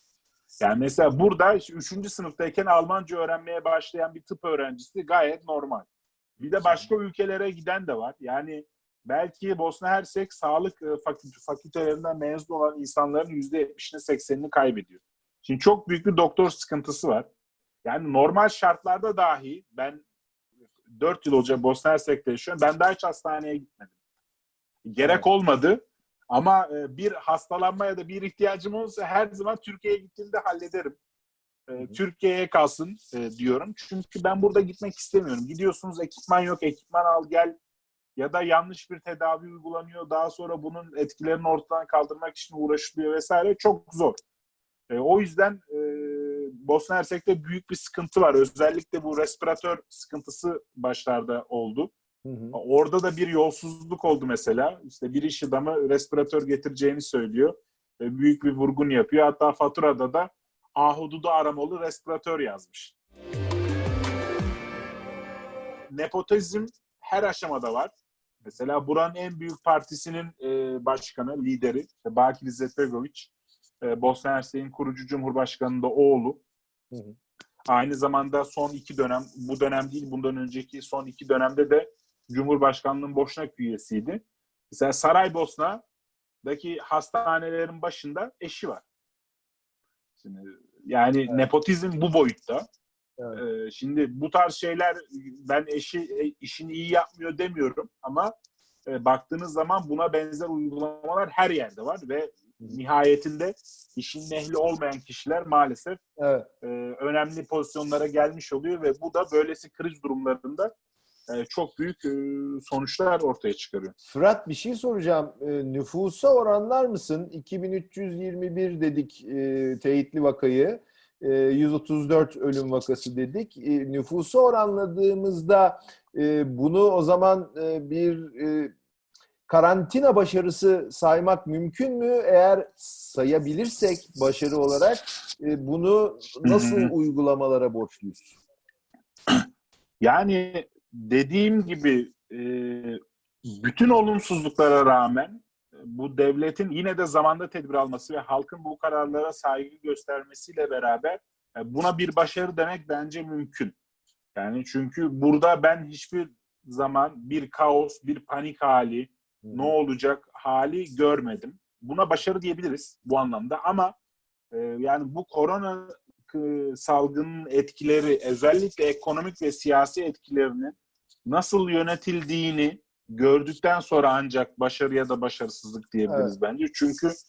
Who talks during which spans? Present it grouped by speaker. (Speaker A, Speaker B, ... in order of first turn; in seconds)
Speaker A: 0.6-17.3, 17.8-20.0, 21.0-23.9, 24.8-31.0, 31.7-37.5, 38.1-44.2, 44.9-51.9, 52.5-63.0, 65.9-67.9, 68.4-73.3, 73.8-76.4, 77.7-85.8, 86.4-88.8, 90.2-92.7, 93.3-98.3, 98.9-106.0, 106.6-110.7, 111.3-113.9, 136.4-136.9, 140.0-153.8, 154.3-163.9, 164.5-170.8, 171.2-177.1
Speaker B: 6.4-6.9, 25.0-25.2, 52.2-52.6, 76.9-77.2, 106.2-106.5, 114.1-128.7, 129.5-138.3, 159.4-159.8, 176.1-176.3